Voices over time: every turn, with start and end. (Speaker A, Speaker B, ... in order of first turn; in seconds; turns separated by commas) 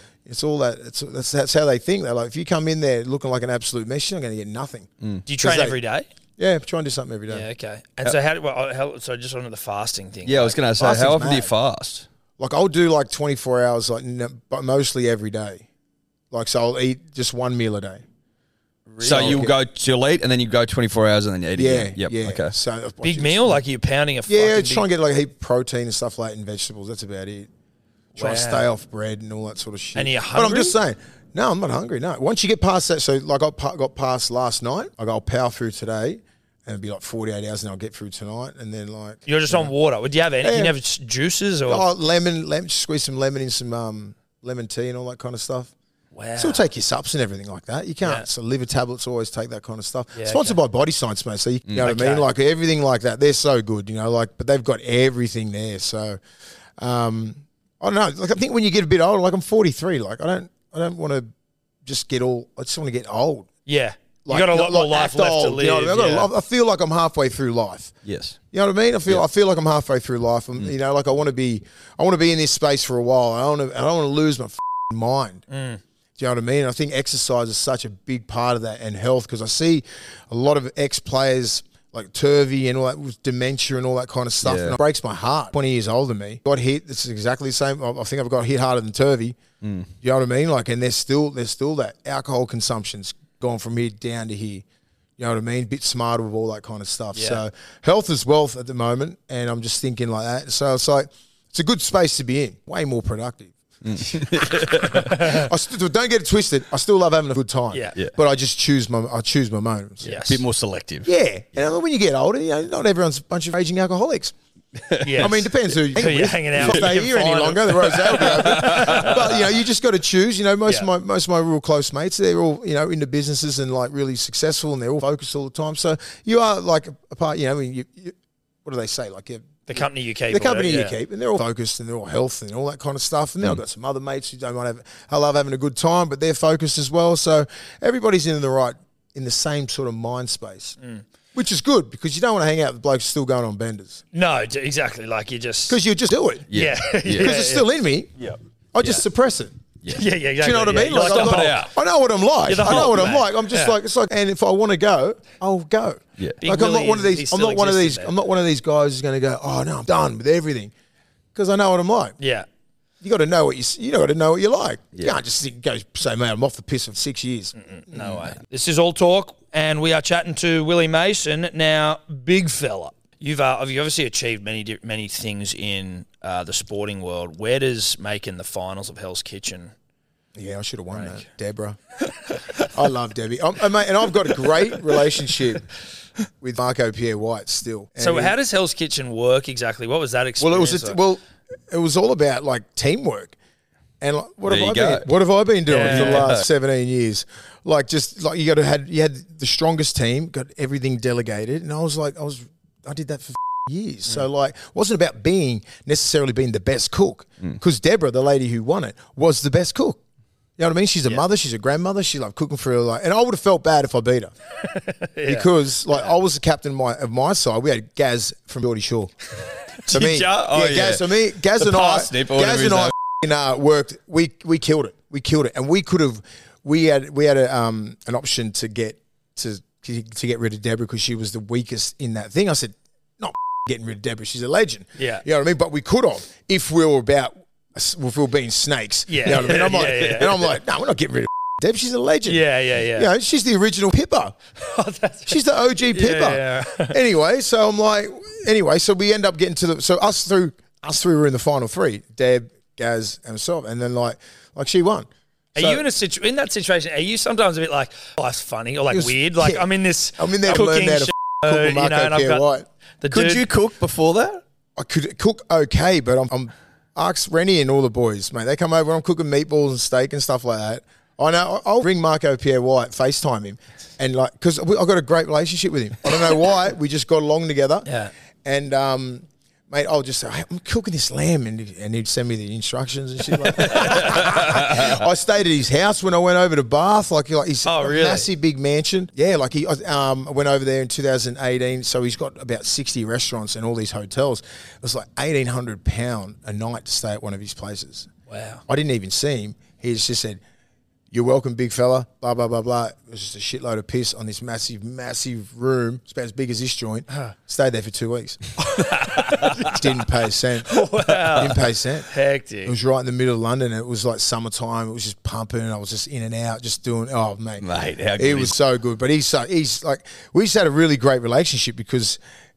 Speaker A: 0.3-4.9, Speaker B: 5.3-6.1, Speaker A: 5.4-5.8, Speaker A: 6.4-7.5, Speaker B: 7.3-10.8, Speaker C: 10.2-12.1, Speaker A: 10.8-11.5, Speaker A: 12.4-15.7, Speaker A: 16.3-18.0, Speaker A: 18.9-19.6, Speaker C: 19.0-22.6, Speaker B: 19.1-19.4, Speaker A: 21.6-23.6, Speaker B: 23.0-24.9, Speaker A: 24.3-27.5, Speaker B: 28.1-28.7, Speaker A: 28.2-39.7, Speaker B: 29.9-30.8, Speaker B: 39.3-41.9, Speaker A: 40.4-40.8, Speaker A: 41.7-45.7, Speaker B: 46.1-46.7, Speaker A: 46.4-56.2, Speaker B: 50.1-50.6, Speaker B: 51.8-52.3, Speaker A: 56.8-61.3, Speaker A: 61.9-63.5, Speaker B: 63.7-66.3, Speaker A: 64.3-67.9, Speaker C: 68.0-68.4, Speaker A: 68.5-75.5, Speaker B: 75.5-75.8, Speaker A: 76.2-89.4, Speaker C: 84.4-84.8, Speaker C: 89.6-89.9, Speaker A: 90.0-94.7, Speaker A: 95.2-104.6, Speaker B: 97.2-97.4, Speaker C: 103.8-105.2, Speaker B: 105.0-105.4, Speaker A: 105.2-110.1, Speaker B: 107.7-108.0, Speaker B: 110.0-110.4, Speaker C: 110.0-111.1, Speaker A: 111.0-114.3, Speaker C: 114.8-115.3, Speaker B: 115.0-119.4, Speaker A: 115.2-140.8, Speaker C: 117.9-119.2, Speaker B: 129.7-131.0, Speaker A: 141.3-144.0, Speaker B: 144.1-145.8, Speaker A: 145.7-146.5, Speaker C: 146.5-147.3, Speaker B: 146.5-147.7, Speaker A: 147.1-148.2, Speaker A: 148.7-149.6, Speaker B: 148.8-149.1, Speaker C: 149.8-150.1, Speaker B: 149.9-151.7, Speaker A: 150.4-160.7, Speaker C: 150.9-151.7, Speaker B: 152.4-153.8, Speaker C: 152.6-153.0, Speaker B: 156.4-158.1, Speaker A: 161.3-162.2, Speaker B: 162.2-162.5, Speaker A: 163.0-168.2, Speaker B: 167.6-179.7, Speaker A: 180.3-181.8, Speaker B: 180.9-181.2, Speaker A: 182.6-185.7, Speaker A: 186.4-188.3, Speaker B: 188.0-191.0, Speaker A: 190.4-193.4, Speaker A: 194.0-210.0, Speaker C: 194.5-195.1, Speaker B: 195.7-196.4, Speaker C: 195.9-196.4, Speaker A: 210.6-214.3, Speaker B: 214.6-216.1, Speaker A: 215.2-219.1, Speaker A: 219.9-244.4, Speaker B: 219.9-220.3, Speaker C: 220.3-222.9, Speaker B: 235.0-235.2, Speaker B: 239.1-240.6, Speaker B: 242.3-243.1, Speaker B: 244.6-247.0, Speaker A: 245.3-255.8, Speaker B: 255.6-263.5, Speaker A: 258.9-262.7, Speaker C: 263.1-264.4, Speaker A: 264.8-298.1, Speaker B: 277.9-278.1, Speaker B: 283.7-284.2, Speaker B: 287.6-288.3, Speaker B: 298.3-298.6, Speaker A: 298.7-300.4, Speaker A: 301.1-308.4, Speaker B: 308.6-309.8, Speaker A: 309.5-312.1, Speaker B: 310.7-312.8, Speaker A: 312.6-322.2, Speaker C: 317.6-318.6